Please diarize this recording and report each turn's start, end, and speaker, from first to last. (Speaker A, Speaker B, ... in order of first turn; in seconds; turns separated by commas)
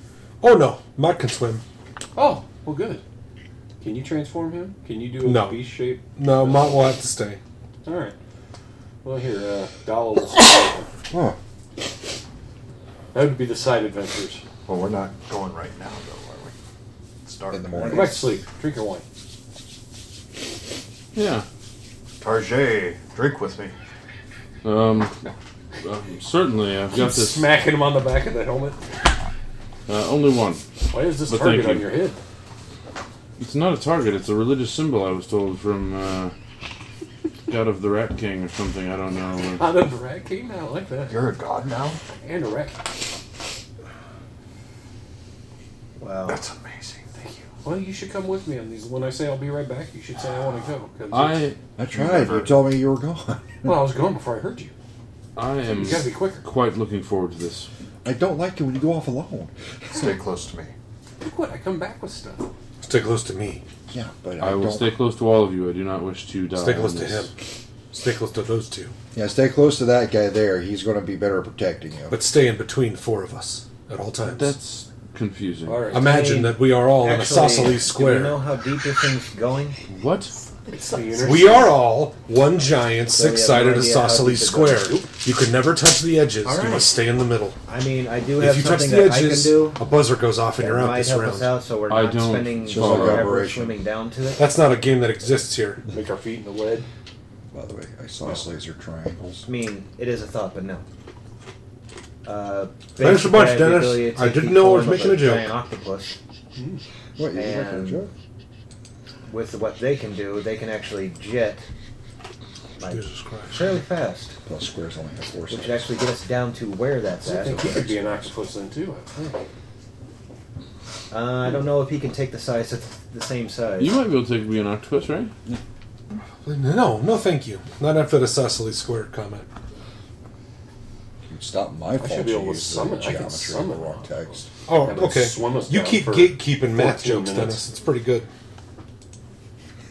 Speaker A: 0.4-1.6, Speaker B: 2.2-3.0, Speaker B: 3.8-7.0, Speaker A: 5.2-7.4, Speaker B: 7.8-8.2, Speaker B: 9.0-10.9, Speaker C: 11.1-11.4, Speaker B: 13.1-14.4, Speaker D: 14.7-16.5, Speaker D: 17.2-18.1, Speaker C: 17.5-18.4, Speaker B: 17.9-19.0, Speaker E: 21.1-21.4, Speaker D: 22.2-23.7, Speaker E: 24.6-25.1, Speaker E: 25.8-27.5, Speaker B: 26.9-28.9, Speaker E: 29.9-31.9, Speaker B: 30.9-32.2, Speaker E: 33.4-36.3, Speaker E: 37.5-39.6, Speaker B: 39.5-41.2, Speaker D: 41.1-42.0, Speaker B: 42.2-42.8, Speaker F: 46.0-46.4, Speaker D: 46.3-47.5, Speaker B: 47.6-51.5, Speaker E: 51.1-51.6, Speaker C: 51.8-53.8, Speaker D: 51.9-52.7, Speaker B: 53.6-54.7, Speaker E: 55.4-57.7, Speaker B: 55.6-56.5, Speaker C: 58.0-59.5, Speaker D: 59.9-60.7, Speaker B: 61.2-62.5, Speaker A: 62.8-63.6, Speaker C: 63.9-65.0, Speaker E: 64.4-67.3, Speaker A: 66.5-67.3, Speaker A: 67.9-68.9, Speaker C: 69.1-72.2, Speaker A: 72.1-74.5, Speaker E: 74.2-75.8, Speaker B: 75.7-76.3, Speaker A: 75.9-78.4, Speaker F: 75.9-79.8, Speaker E: 79.9-80.3, Speaker B: 80.7-81.9, Speaker A: 81.2-87.6, Speaker F: 83.1-84.9, Speaker B: 84.8-85.1, Speaker F: 86.4-87.0, Speaker F: 87.7-89.8, Speaker A: 88.4-91.6, Speaker F: 90.6-94.5, Speaker E: 91.9-93.3, Speaker C: 92.6-93.8, Speaker A: 94.4-95.8, Speaker B: 95.9-96.9, Speaker C: 97.5-99.5, Speaker F: 99.4-100.8, Speaker F: 102.2-106.2, Speaker A: 103.0-105.6, Speaker B: 106.6-106.8, Speaker C: 107.2-108.1, Speaker F: 107.3-108.1, Speaker F: 109.3-111.7, Speaker F: 112.8-114.4, Speaker A: 112.8-113.8, Speaker C: 114.5-116.0, Speaker F: 115.5-117.8, Speaker B: 117.2-119.4, Speaker C: 117.4-118.3, Speaker F: 121.1-124.0, Speaker E: 123.8-125.3, Speaker A: 126.4-129.5, Speaker C: 131.3-134.5, Speaker B: 132.0-137.7, Speaker A: 134.7-138.3